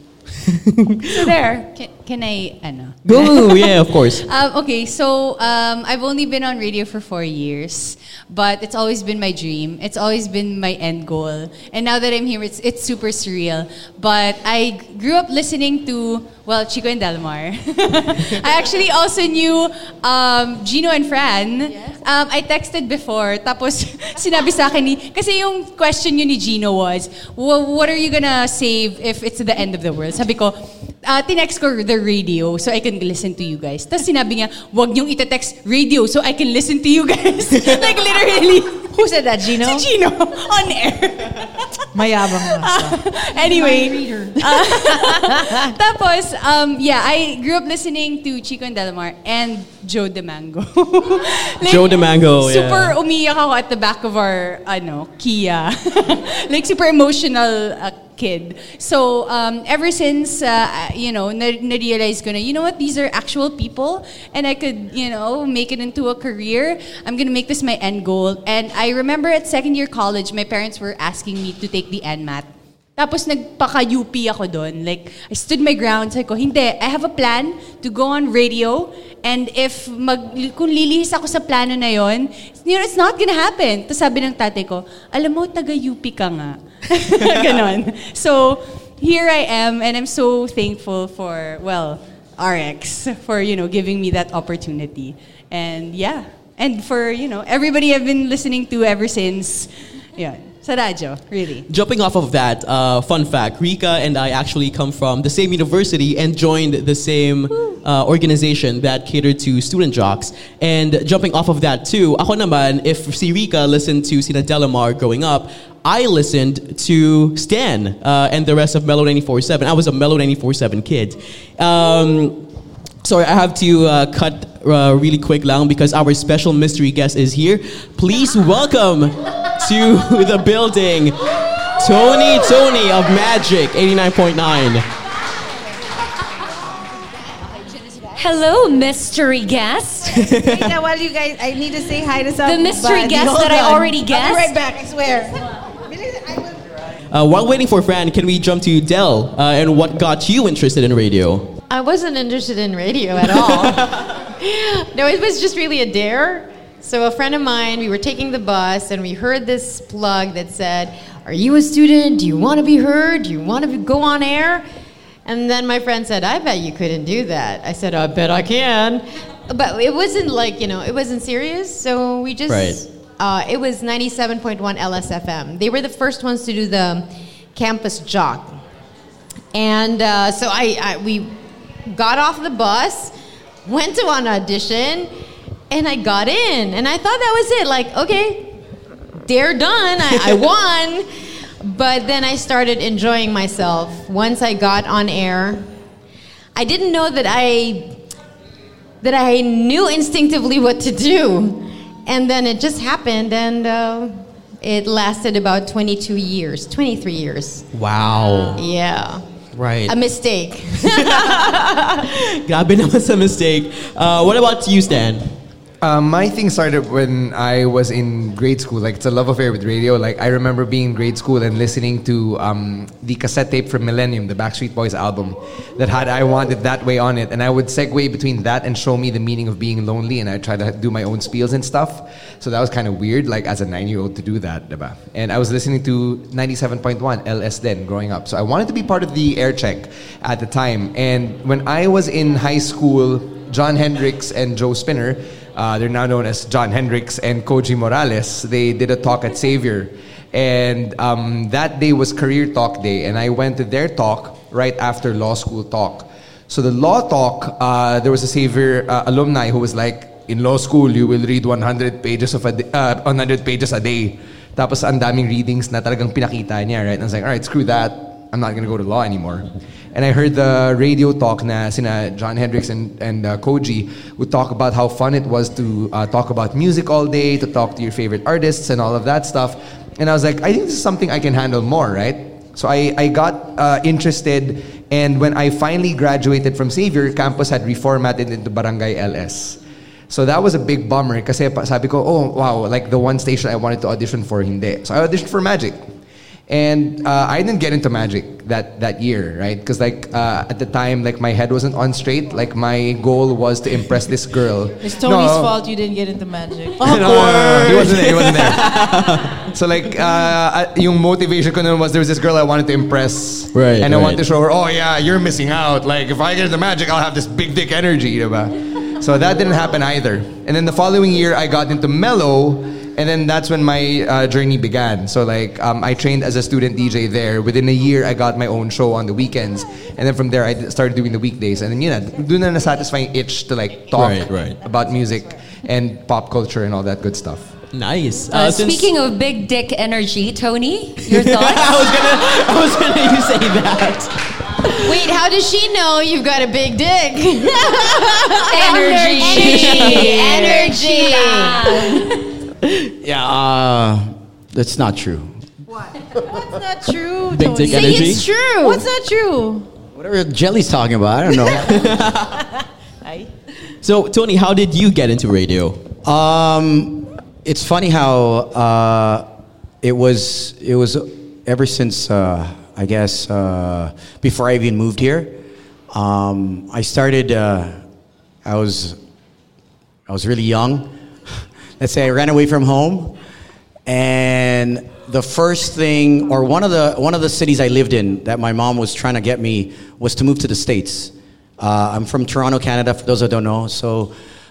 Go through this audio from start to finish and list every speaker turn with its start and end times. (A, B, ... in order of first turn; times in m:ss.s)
0:00.6-0:01.0 A
0:01.1-0:39.9 B
0:03.0-0:04.2 A
0:38.9-0:41.4 C
0:40.6-0:40.9 B
0:41.9-0:45.7 C
0:42.6-1:41.6 B
0:51.6-0:53.0 A
1:41.7-2:02.5 A
2:03.0-2:14.9 A
2:18.1-2:20.2 D
2:20.1-2:20.8 A
2:20.3-2:26.5 C
2:22.4-2:24.5 D
2:27.1-2:31.6 A
2:31.7-2:44.6 E
2:33.4-2:33.8 A
2:45.2-2:58.6 E
2:52.5-2:52.8 A
2:59.5-3:03.1 E
3:03.6-3:05.1 E
3:05.7-3:08.6 E
3:09.2-3:11.0 E
3:11.6-3:15.7 E
3:16.6-3:18.0 E
3:19.0-3:27.6 E
3:27.7-3:28.6 A
3:28.6-3:29.2 E
3:29.8-3:32.0 E
3:31.0-3:35.3 A
3:35.8-4:55.8 F
4:56.5-5:05.5 F
5:04.8-5:08.3 C
5:06.8-5:37.5 F
5:06.8-5:08.5 G
5:07.7-5:09.4 A
5:13.5-5:14.2 A
5:33.9-5:34.6 A
5:37.7-5:38.9 A
5:38.3-5:41.9 D
5:41.1-5:44.8 A
5:44.8-5:51.8 E
5:48.5-5:52.2 D
5:48.8-5:50.8 C
5:49.4-5:50.1 A
5:53.0-5:55.3 G
5:55.7-5:59.7 C
5:57.3-5:58.2 A
5:57.7-5:58.8 E
5:59.9-6:01.8 G
6:01.3-6:01.7 C
6:01.7-6:02.4 A
6:03.0-6:03.3 C
6:03.8-6:05.8 A
6:06.0-6:09.3 G
6:09.8-6:15.4 G
6:15.9-6:17.8 G
6:18.4-6:19.0 G
6:20.1-6:23.2 G
6:23.8-6:34.1 G